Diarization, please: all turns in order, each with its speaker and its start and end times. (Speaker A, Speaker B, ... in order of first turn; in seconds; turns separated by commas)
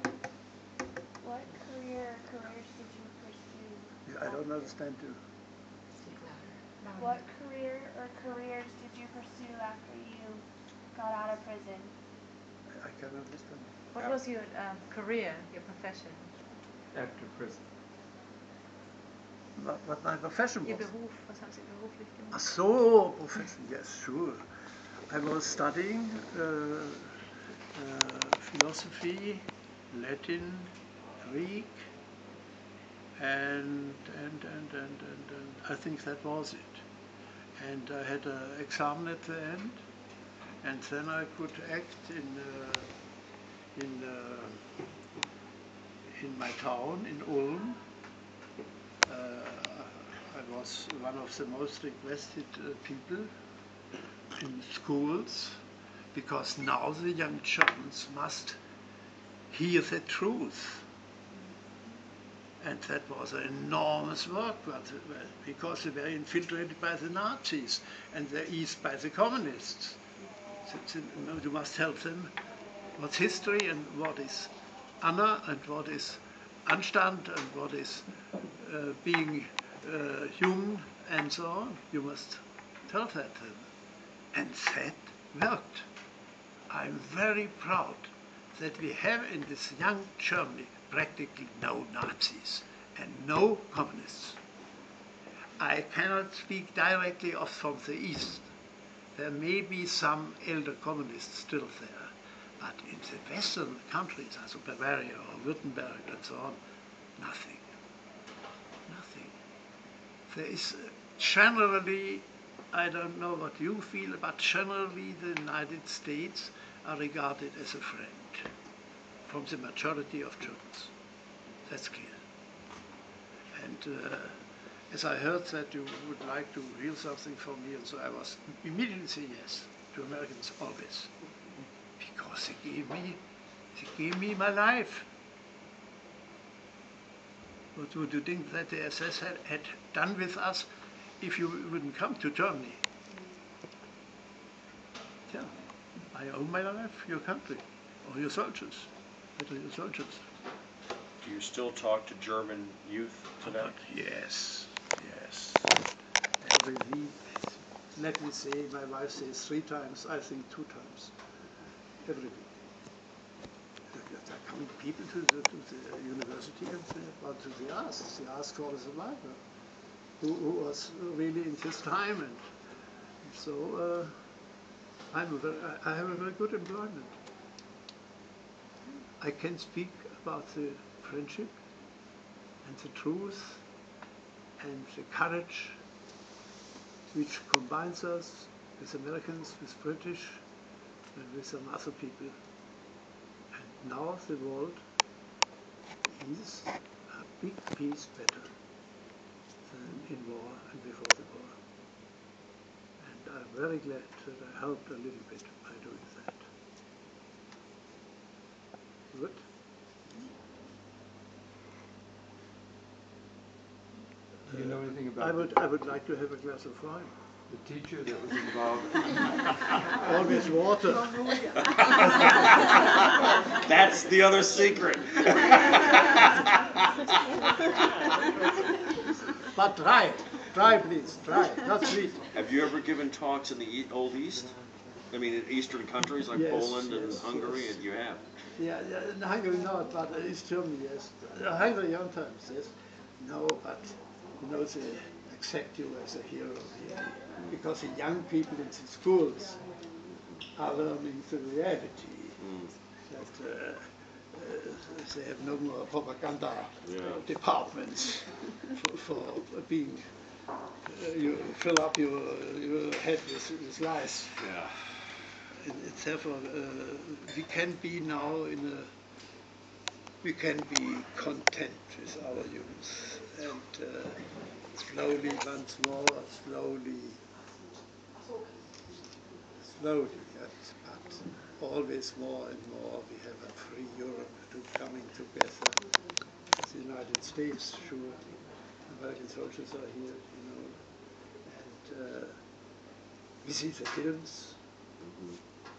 Speaker A: 1.2-4.4, Speaker B: 4.0-5.2, Speaker C: 6.0-7.2, Speaker A: 7.0-11.9, Speaker B: 12.7-13.7, Speaker C: 13.9-16.3, Speaker D: 16.9-17.6, Speaker B: 19.6-20.9, Speaker C: 20.6-22.4, Speaker B: 22.3-24.4, Speaker B: 25.1-27.2, Speaker B: 27.7-31.9, Speaker B: 33.1-36.8, Speaker B: 37.6-39.9, Speaker B: 40.6-42.9, Speaker B: 43.7-44.7, Speaker B: 46.1-47.8, Speaker B: 49.0-53.3, Speaker B: 54.3-55.6, Speaker B: 56.1-58.6, Speaker B: 59.5-60.8, Speaker B: 62.6-70.0, Speaker B: 70.6-72.3, Speaker B: 73.0-83.7, Speaker B: 84.3-85.9, Speaker B: 86.7-94.4, Speaker B: 95.6-98.5, Speaker B: 99.1-106.6, Speaker B: 107.2-107.6, Speaker B: 108.9-109.3, Speaker B: 110.3-118.5, Speaker B: 119.3-120.9, Speaker B: 121.7-122.2, Speaker B: 123.5-131.2, Speaker B: 132.0-133.2, Speaker B: 133.7-135.1, Speaker B: 137.7-140.7, Speaker B: 141.2-142.8, Speaker B: 145.3-145.5, Speaker B: 146.1-150.2, Speaker E: 151.2-153.7, Speaker B: 153.5-155.8, Speaker B: 156.4-161.1, Speaker B: 162.0-162.5, Speaker B: 163.9-169.4, Speaker B: 170.2-172.4, Speaker B: 173.2-174.2, Speaker B: 175.1-177.2, Speaker B: 179.2-181.6, Speaker B: 182.6-183.6, Speaker B: 184.6-185.8, Speaker B: 187.1-190.4, Speaker B: 191.1-192.4, Speaker B: 193.5-194.8, Speaker B: 196.1-198.5, Speaker B: 199.7-201.6, Speaker B: 203.0-206.4, Speaker B: 209.1-209.4, Speaker D: 214.5-215.5, Speaker B: 214.5-217.1, Speaker D: 217.5-219.8, Speaker B: 219.9-221.2, Speaker E: 223.4-226.3, Speaker B: 229.5-232.3, Speaker E: 232.3-238.2, Speaker B: 236.3-237.6, Speaker B: 238.5-249.6, Speaker B: 250.5-252.4, Speaker E: 252.4-252.7, Speaker B: 253.1-260.1, Speaker E: 256.8-257.2, Speaker B: 260.8-264.4, Speaker E: 264.4-264.9, Speaker B: 265.5-268.9, Speaker B: 270.2-277.2, Speaker B: 279.6-285.9, Speaker B: 286.6-292.4, Speaker B: 293.4-294.6, Speaker E: 295.0-295.4